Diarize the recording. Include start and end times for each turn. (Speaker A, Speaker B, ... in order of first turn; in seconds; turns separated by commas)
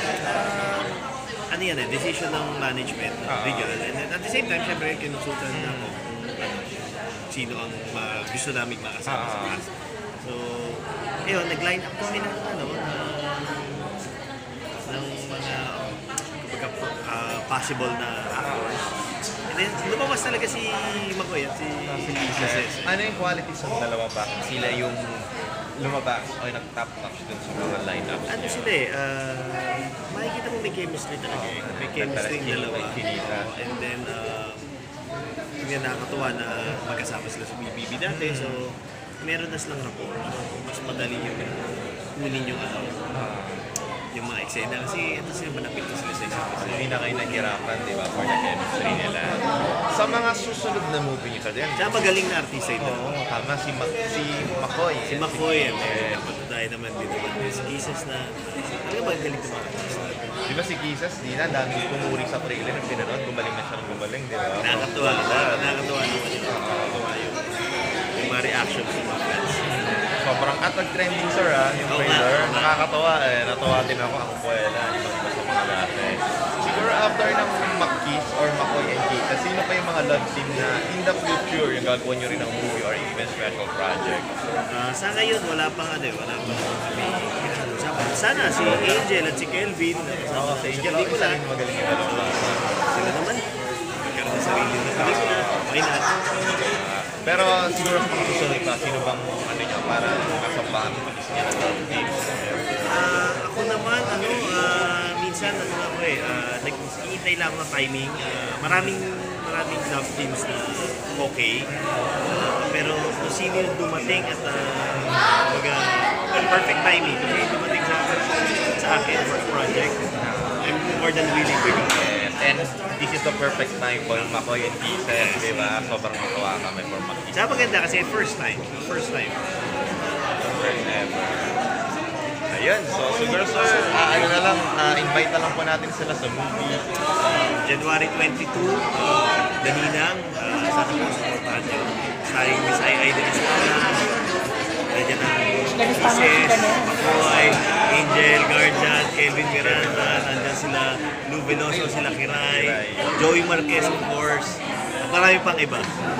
Speaker A: 0.2-14.0, Speaker B: 3.3-3.8, Speaker B: 5.5-6.0, Speaker B: 9.1-9.6, Speaker A: 14.8-18.9, Speaker B: 18.4-18.8, Speaker A: 19.5-22.9, Speaker B: 21.9-25.2, Speaker B: 25.8-28.7, Speaker A: 28.3-34.6, Speaker B: 31.3-33.5, Speaker A: 35.6-43.0, Speaker B: 38.1-38.6, Speaker B: 43.1-43.6, Speaker A: 44.1-47.5, Speaker B: 46.6-51.9, Speaker A: 51.8-53.2, Speaker B: 52.8-56.3, Speaker A: 55.1-60.5, Speaker B: 60.5-65.8, Speaker A: 64.6-67.4, Speaker B: 66.5-67.0, Speaker A: 68.2-69.6, Speaker B: 69.6-84.3, Speaker A: 71.9-72.8, Speaker A: 84.7-91.4, Speaker B: 88.5-89.0, Speaker B: 90.3-92.7, Speaker A: 92.0-93.4, Speaker A: 94.0-96.1, Speaker B: 94.9-95.7, Speaker B: 96.3-102.6, Speaker A: 102.9-111.6, Speaker B: 108.6-109.0, Speaker A: 112.3-120.0, Speaker B: 115.0-115.2, Speaker B: 120.2-120.6, Speaker A: 120.6-122.0, Speaker B: 121.9-127.4, Speaker A: 124.0-124.5, Speaker A: 125.1-126.0, Speaker A: 127.3-129.4, Speaker B: 129.6-129.9, Speaker A: 130.3-130.9, Speaker B: 130.6-131.5, Speaker B: 132.5-136.8, Speaker A: 134.1-134.4, Speaker A: 137.2-144.2, Speaker A: 144.9-155.9, Speaker B: 149.5-150.6, Speaker B: 151.7-153.1